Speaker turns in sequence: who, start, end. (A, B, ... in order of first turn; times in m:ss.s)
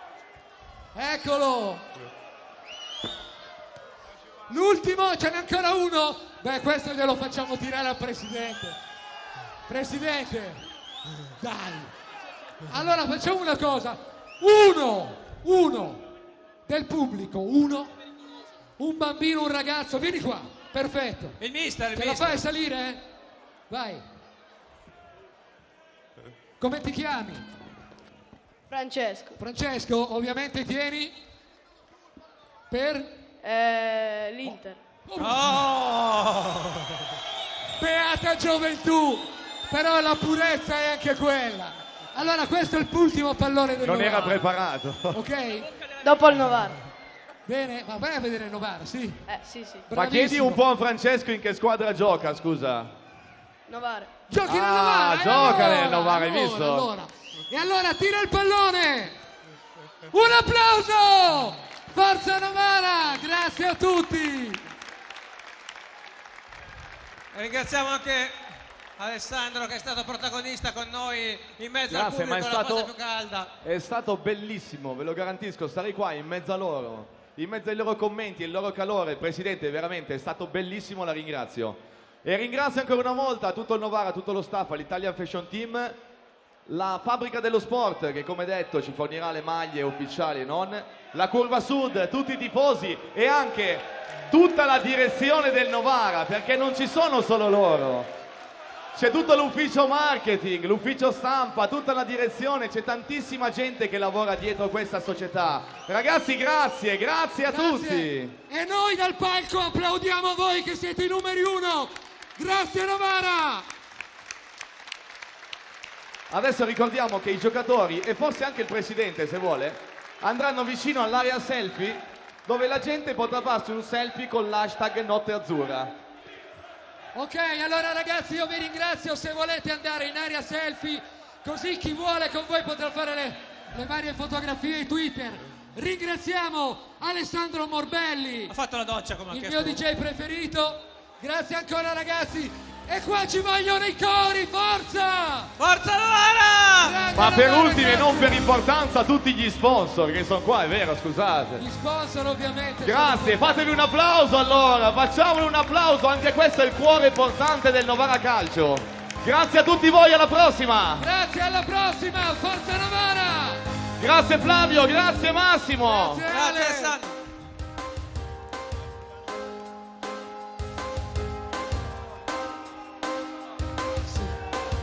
0:00.9-0:01.8 A
0:04.5-0:08.8 A
0:09.7-0:10.6 A
0:11.4-0:11.9 A
0:12.7-0:16.1 A
0:16.6-0:17.9 A
0:18.8-0:21.4 A
0:21.4-0:22.4 B
0:21.9-0:23.0 A
0:23.7-0:24.0 A
0:26.6-0:27.4 A
0:28.7-0:29.4 C
0:29.4-0:31.1 A
0:32.7-0:33.2 A
0:33.4-0:34.8 C
0:35.1-0:35.6 A
0:35.2-0:36.9 B
0:37.8-0:44.4 A
0:43.8-0:45.2 D
0:45.1-0:45.7 A
0:46.0-0:46.8 C
0:47.5-0:49.2 A
0:49.2-0:49.9 C
0:49.9-0:50.6 A
0:49.9-0:52.9 D
0:53.7-0:54.1 C
0:54.3-0:59.2 A
0:54.4-0:56.9 D
1:00.1-1:04.6 A
1:07.3-1:08.4 B
1:09.0-1:13.5 B
1:11.9-1:12.9 D
1:13.6-1:26.0 D
1:26.6-1:38.1 D
1:38.9-1:48.3 D
1:47.5-1:53.7 A
1:56.3-2:06.0 D
2:07.2-2:18.5 A
2:18.5-2:19.8 B
2:19.3-2:25.5 A
2:25.6-2:27.0 B
2:26.8-2:28.4 A
2:27.1-2:31.6 D
2:31.6-2:33.7 A
2:32.8-2:41.0 D
2:41.0-2:43.6 A
2:44.0-2:46.2 D
2:45.8-2:46.9 A
2:46.3-2:47.2 B
2:54.0-2:54.4 A